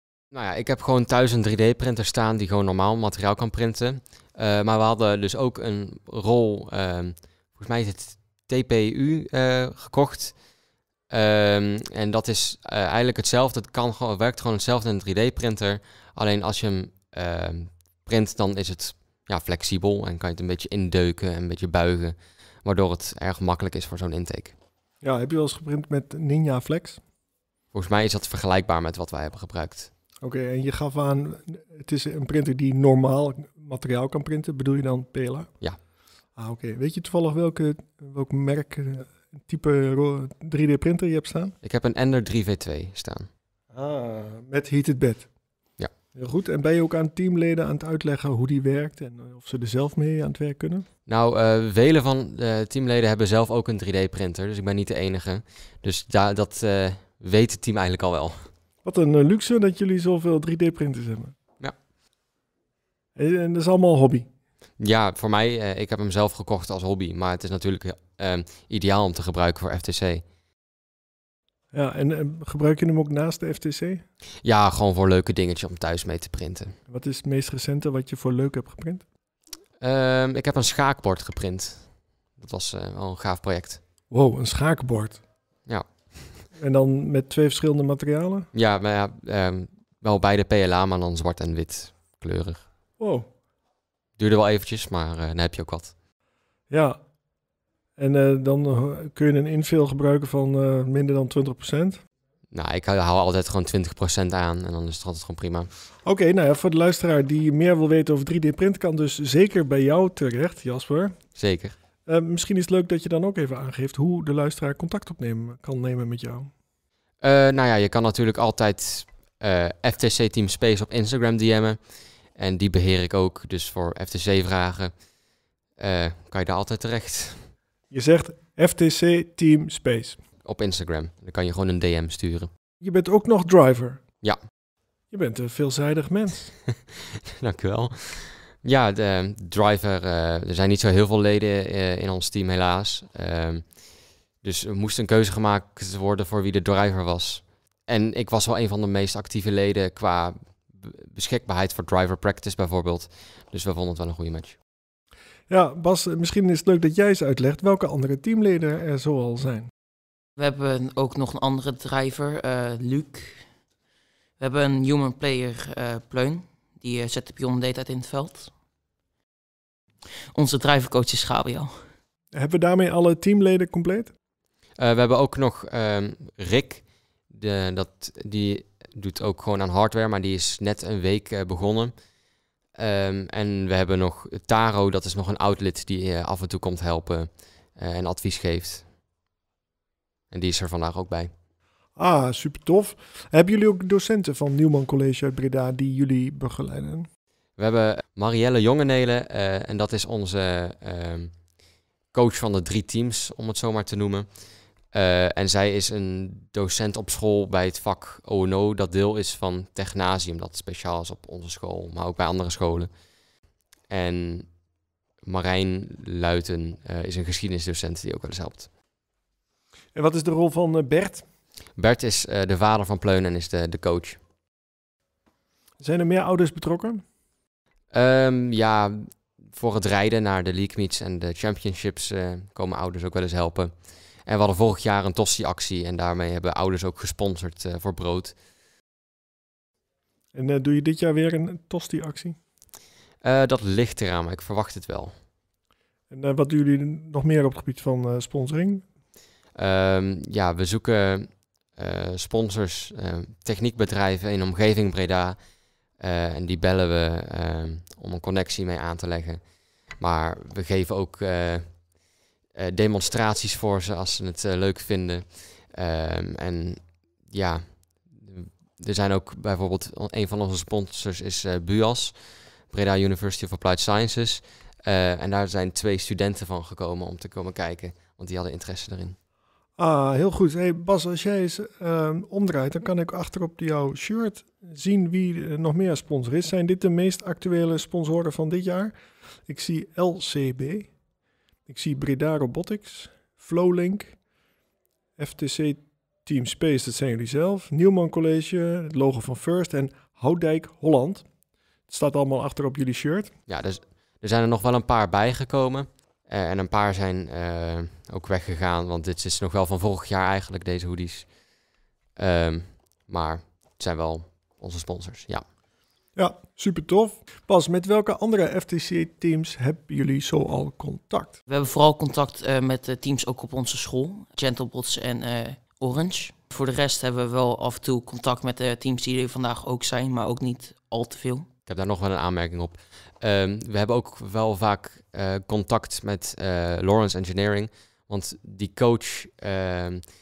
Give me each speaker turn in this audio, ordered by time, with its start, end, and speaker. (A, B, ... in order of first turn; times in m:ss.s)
0:00.3-0:10.4 A
0:11.1-0:24.5 A
0:25.0-0:27.0 B
0:27.7-0:29.9 A
0:30.2-0:35.5 B
0:36.4-0:41.6 B
0:41.6-0:43.3 A
0:43.7-0:45.3 B
0:46.2-0:50.8 B
0:51.1-0:58.5 A
0:58.8-1:01.4 B
1:03.2-1:04.3 B
1:04.8-1:10.2 A
1:11.7-1:14.0 B
1:14.4-1:16.8 A
1:16.9-1:19.0 B
1:19.8-1:23.8 A
1:24.1-1:25.2 B
1:25.7-1:26.4 A
1:26.6-1:28.5 B
1:28.5-1:32.6 A
1:33.0-1:33.3 B
1:34.2-1:35.9 A
1:36.7-1:37.0 B
1:38.0-1:42.0 B
1:42.5-1:45.7 A
1:46.0-1:51.2 B
1:51.4-1:51.8 A
1:52.1-1:56.5 B
1:57.2-2:01.8 A
2:02.3-2:04.9 A
2:05.8-2:07.5 A
2:07.9-2:10.2 B
2:10.4-2:12.5 A
2:12.8-2:14.0 B
2:15.1-2:16.5 B
2:17.4-2:23.8 A
2:24.4-2:34.6 A
2:35.5-2:39.7 B
2:40.4-2:43.5 C
2:44.4-2:48.5 C
2:50.3-2:51.9 C
2:52.3-2:54.1 B
2:54.8-3:01.9 A
3:02.8-3:08.9 A
3:10.3-3:11.3 A
3:12.0-3:17.1 B
3:17.6-3:21.4 A
3:22.1-3:32.9 A
3:33.9-3:34.5 A
3:35.2-3:38.7 A
3:40.0-3:41.3 B
3:41.8-3:44.2 A
3:45.8-3:47.0 B
3:47.9-3:58.4 A
4:00.3-4:02.4 B
4:03.2-4:05.2 A
4:06.1-4:08.8 B
4:09.6-4:15.4 A
4:15.9-4:21.9 A
4:22.5-4:39.2 A
4:39.8-4:49.0 B
4:49.5-4:50.9 B
4:51.7-4:54.2 B
4:55.2-5:01.3 B
5:01.9-5:03.3 B
5:03.5-5:11.4 A
5:12.2-5:15.4 A
5:16.2-5:21.4 B
5:21.5-5:31.5 C
5:31.7-5:40.1 A